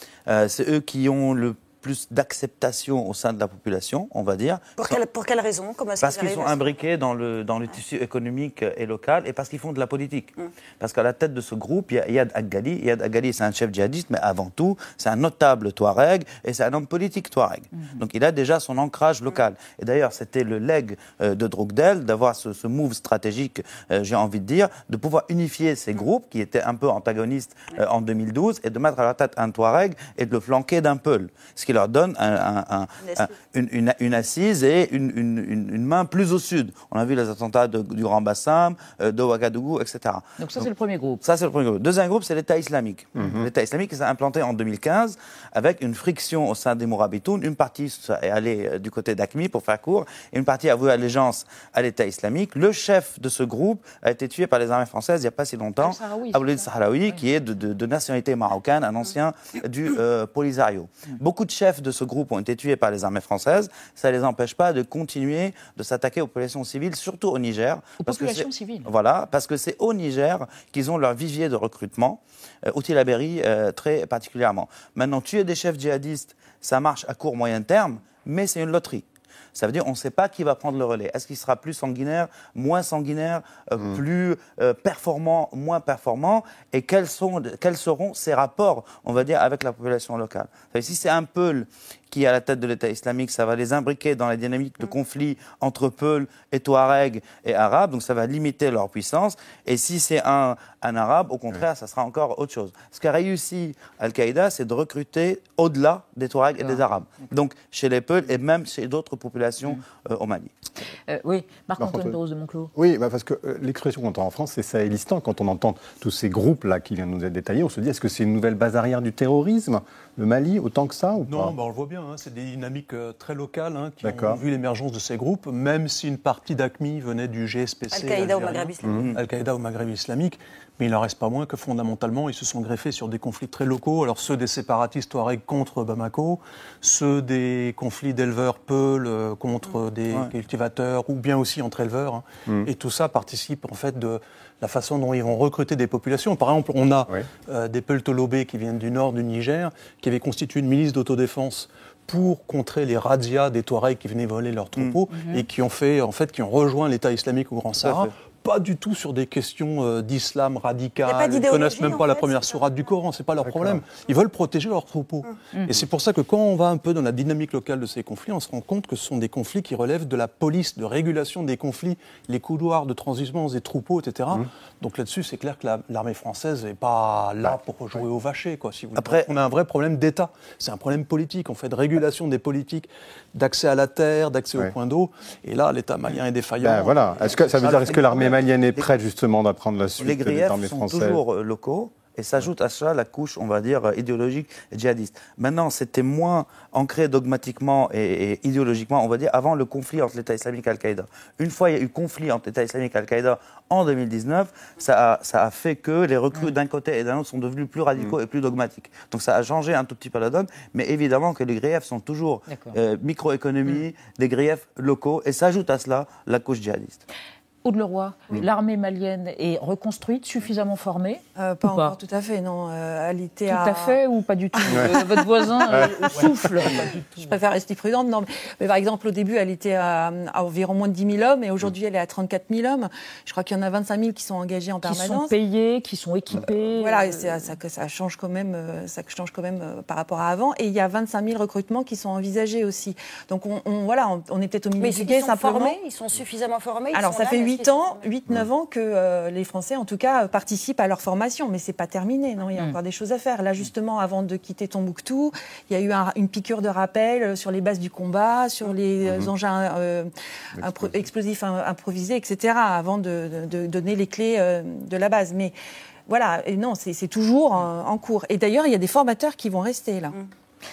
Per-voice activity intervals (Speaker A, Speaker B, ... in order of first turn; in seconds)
Speaker A: 0.3-5.0, 6.0-40.7, 41.2-110.5, 178.9-179.3, 187.6-188.9, 190.0-217.0
Speaker B: 4.8-6.7, 33.0-33.3, 127.9-129.0, 161.0-162.9, 244.8-248.0
Speaker C: 40.4-41.2, 55.8-57.2, 68.0-68.9, 106.6-106.8, 111.1-112.7, 155.1-155.4, 212.5-212.8, 217.6-221.9, 223.5-226.8, 234.8-237.5
Speaker D: 43.2-43.5, 111.8-112.2, 112.7-121.5, 124.0-124.4, 163.4-163.8, 186.6-191.2, 225.7-226.0, 260.6-261.0
Speaker E: 121.2-188.4, 226.1-227.1
Speaker F: 221.3-224.0, 224.5-235.4, 236.7-245.8, 246.9-265.6, 266.1-270.1